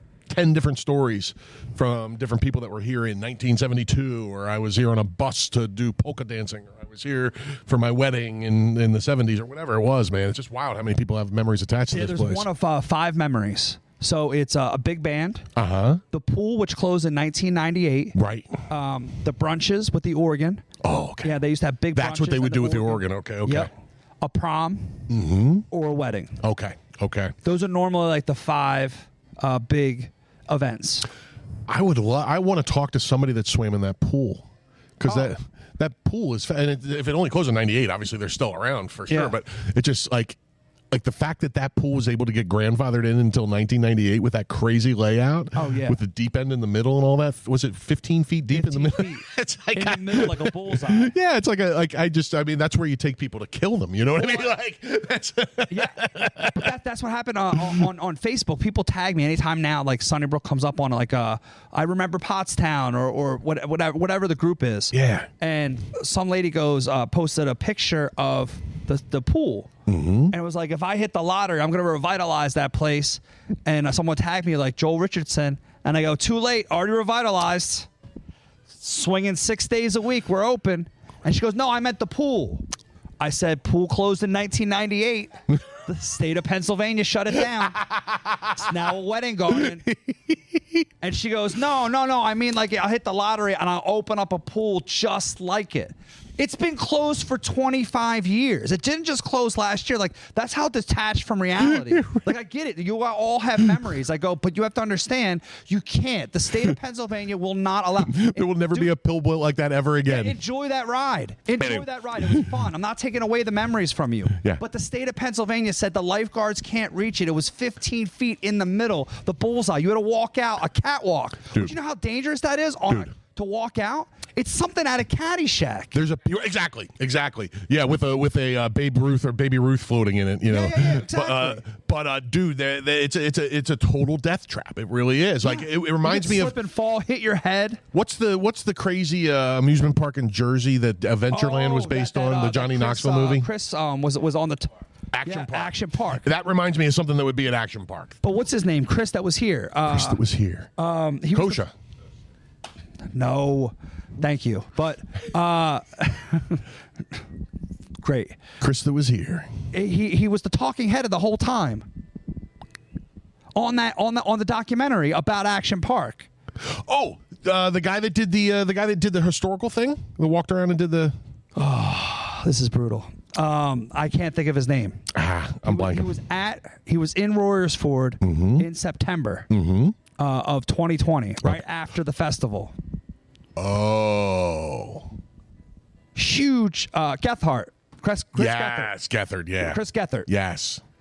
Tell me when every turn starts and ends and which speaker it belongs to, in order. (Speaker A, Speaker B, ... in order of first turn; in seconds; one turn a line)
Speaker A: 0.3-12.5
Speaker B: 11.9-15.5
Speaker A: 15.6-16.0
Speaker B: 16.1-18.1
Speaker A: 18.1-18.6
Speaker B: 18.7-20.6
Speaker A: 20.8-21.4
Speaker B: 21.2-23.7
Speaker A: 21.9-23.7
Speaker B: 24.2-25.1
Speaker A: 25.1-25.7
Speaker B: 25.7-26.4
Speaker A: 26.4-27.3
Speaker B: 27.4-31.1
Speaker A: 31.7-34.5
Speaker A: 35.0-40.4
Speaker B: 35.0-35.3
Speaker B: 39.1-39.3
Speaker A: 40.9-56.7
Speaker B: 45.5-46.0
Speaker B: 48.5-51.1
Speaker B: 55.7-69.7
Speaker A: 64.9-65.3
Speaker A: 69.9-70.3
Speaker B: 70.3-77.9
Speaker B: 78.8-82.6
Speaker B: 83.2-87.8
Speaker B: 88.5-89.9
Speaker A: 89.5-90.8
Speaker B: 91.0-108.9
Speaker A: 101.7-102.2
Speaker A: 108.0-110.4
Speaker B: 110.0-126.0
Speaker A: 111.6-112.5
Speaker A: 125.9-136.6
Speaker B: 130.5-131.6
Speaker B: 135.4-137.8
Speaker A: 137.9-143.5
Speaker B: 141.3-144.7
Speaker A: 145.1-148.2
Speaker B: 145.2-146.2
Speaker B: 148.2-150.2
Speaker A: 149.9-150.7
Speaker B: 150.8-151.6
Speaker A: 151.3-151.7
Speaker B: 153.1-156.6
Speaker B: 158.0-158.4
Speaker A: 158.6-159.5
Speaker B: 159.7-161.8
Speaker B: 163.6-166.3
Speaker A: 166.6-171.1
Speaker B: 171.6-175.1
Speaker A: 175.1-176.1
Speaker B: 175.7-179.5
Speaker A: 178.2-178.7
Speaker A: 179.5-180.0
Speaker B: 180.2-182.7
Speaker A: 183.6-185.1
Speaker B: 186.1-188.9
Speaker A: 188.3-190.8
Speaker B: 189.6-190.3